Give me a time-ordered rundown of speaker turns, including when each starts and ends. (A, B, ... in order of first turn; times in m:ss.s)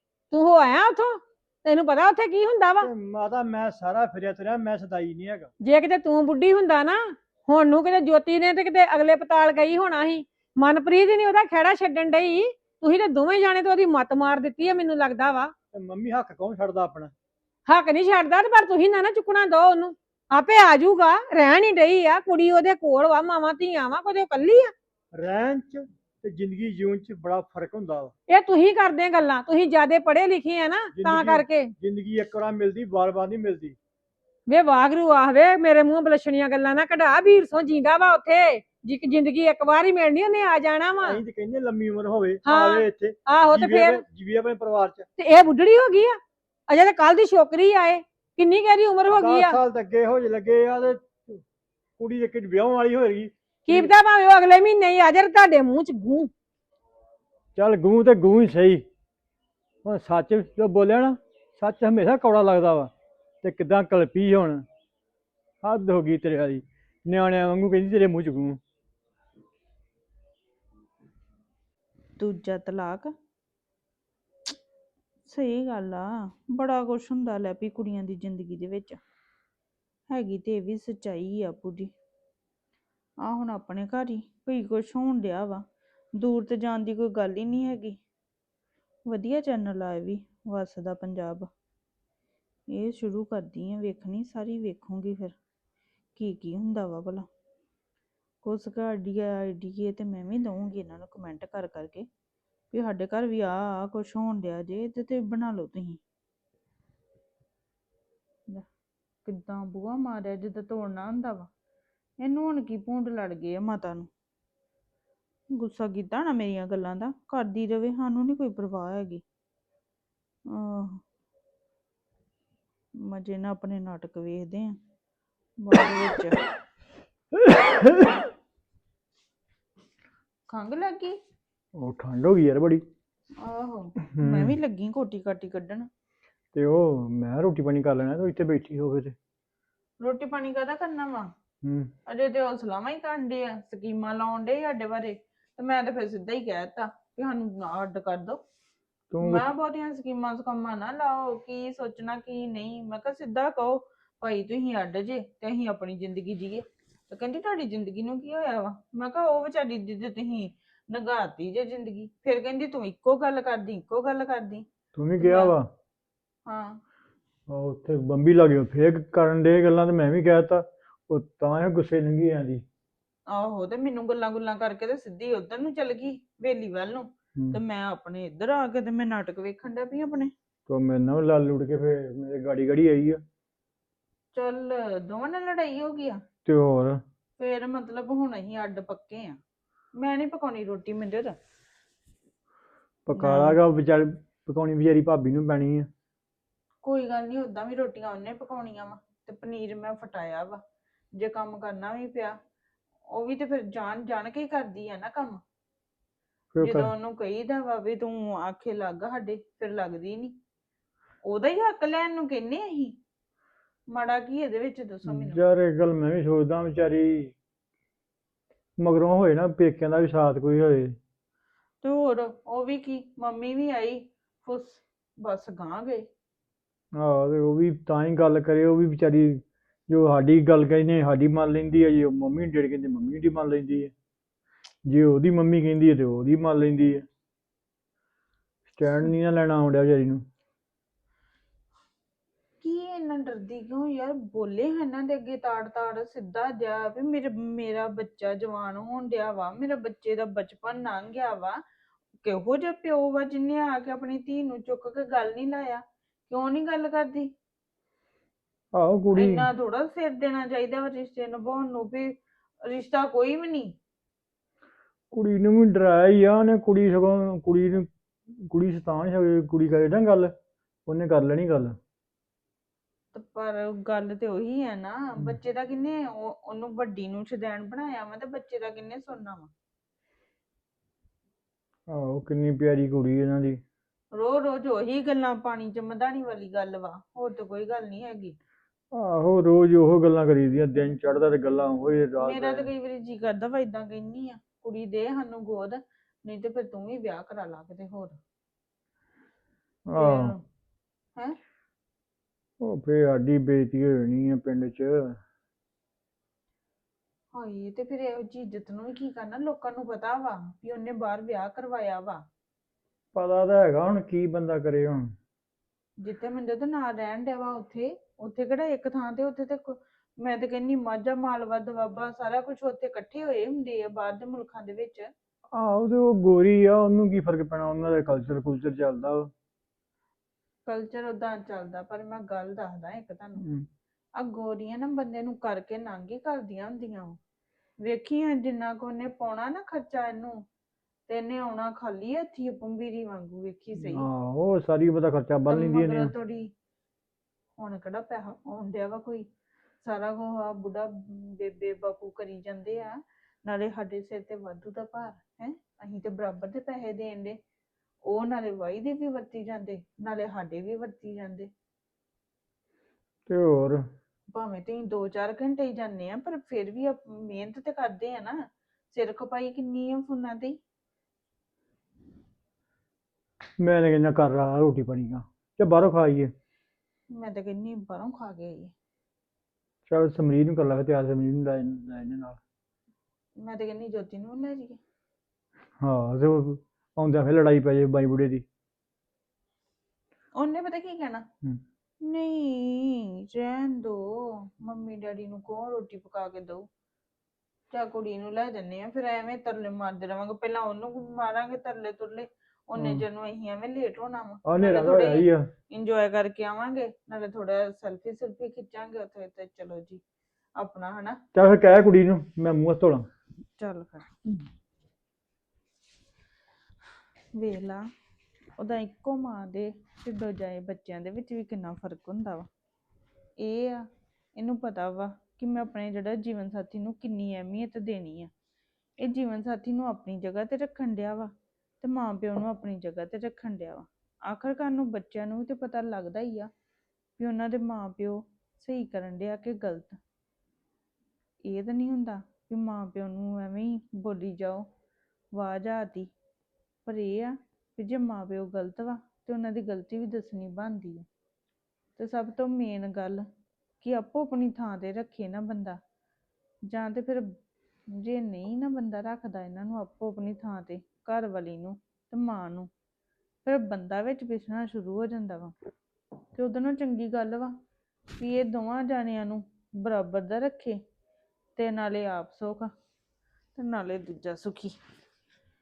0:00.3-0:02.9 A
0:02.8-0:05.5 B
0:05.6-0:15.5 A
0:15.7-0:17.1 B
0:17.7-0:24.7 A
0:25.1-0:28.1 B
0:28.3-0:31.7 A
0:30.9-0:33.8 B
0:34.5-0:41.2 A
0:41.0-0:45.0 B
0:42.4-0:44.0 A
0:45.2-0:49.6 A
0:49.1-0:51.4 B
0:52.0-0:53.9 B
0:53.7-0:56.3 A
0:57.5-0:58.8 B
0:59.8-1:02.9 B
1:03.4-1:04.6 B
1:05.6-1:08.6 B
1:12.2-1:13.1 C
1:15.3-1:19.0 C
1:20.1-1:21.9 C
1:23.2-1:25.6 C
1:26.2-1:28.0 C
1:29.1-1:31.5 C
1:32.7-1:35.4 C
1:36.2-1:37.3 C
1:38.4-1:42.1 C
1:42.7-1:46.0 C
1:49.2-1:51.5 C
1:52.2-1:54.1 C
1:55.5-1:59.2 C
2:00.5-2:01.0 C
2:03.0-2:04.8 C
2:05.6-2:06.4 C
2:07.3-2:08.3 B
2:10.5-2:11.2 C
2:11.8-2:12.8 B
2:13.4-2:15.9 C
2:14.1-2:14.6 B
2:16.5-2:19.2 B
2:20.0-2:21.3 C
2:21.6-2:21.9 B
2:22.1-2:28.4 C
2:29.1-2:29.5 B
2:29.2-2:44.6 C
2:44.9-2:45.7 B
2:45.2-2:45.5 C
2:46.4-2:46.8 C
2:47.5-2:52.6 B
2:53.3-3:00.3 C
3:00.7-3:03.2 B
3:04.3-3:06.2 C
3:06.4-3:07.0 B
3:07.4-3:09.4 C
3:09.9-3:11.4 C
3:13.0-3:15.9 B
3:13.1-3:13.6 C
3:16.8-3:20.6 C
3:21.1-3:22.4 C
3:23.1-3:25.4 C
3:26.5-3:26.9 B
3:26.6-3:30.4 C
3:31.2-3:33.0 C
3:33.9-3:35.4 C
3:35.0-3:37.3 B
3:38.8-3:41.0 B
3:41.8-3:46.1 C
3:47.0-3:53.9 B
3:54.8-3:57.0 B
3:58.7-4:00.2 B
4:02.6-4:11.6 C
4:12.2-4:17.3 C
4:18.7-4:19.5 B
4:19.1-4:23.8 C
4:25.1-4:30.3 B
4:30.9-4:31.8 B
4:33.1-4:39.5 C
4:41.9-4:43.6 B
4:44.1-4:48.4 C
4:48.9-4:52.7 B
4:52.2-4:58.2 C
4:59.9-5:00.4 B
5:00.0-5:00.4 C
5:02.6-5:05.2 B
5:07.3-5:12.2 C
5:13.1-5:15.1 B
5:16.0-5:25.1 C
5:25.5-5:29.3 B
5:30.6-5:33.4 C
5:33.4-5:33.7 B
5:34.2-5:37.2 C
5:37.8-5:40.4 C
5:41.1-5:44.0 C
5:43.8-5:46.1 B
5:45.5-5:46.5 C
5:47.6-5:49.3 C
5:49.8-5:57.4 C
5:58.0-6:01.5 C
6:03.3-6:03.8 B
6:04.3-6:10.6 C
6:13.6-6:16.3 B
6:17.1-6:18.7 C
6:19.9-6:22.4 B
6:23.4-6:24.8 C
6:25.8-6:28.4 B
6:30.3-6:31.3 C
6:32.0-6:36.7 C
6:37.7-6:50.0 C
6:42.8-6:43.0 B
6:44.4-6:45.5 B
6:50.6-6:51.2 C
6:51.3-6:53.1 B
6:53.6-6:54.3 C
6:57.3-6:57.9 C
6:58.6-7:02.5 C
7:03.4-7:08.3 C
7:09.0-7:16.5 C
7:17.2-7:20.0 C
7:21.4-7:24.6 C
7:25.3-7:26.1 C
7:26.8-7:31.0 C
7:32.0-7:33.3 C
7:33.8-7:35.8 C
7:36.7-7:37.3 C
7:37.9-7:42.7 C
7:43.4-7:45.5 C
7:46.3-7:47.5 C
7:48.2-7:50.8 C
7:51.6-7:52.7 C
7:53.6-7:54.8 C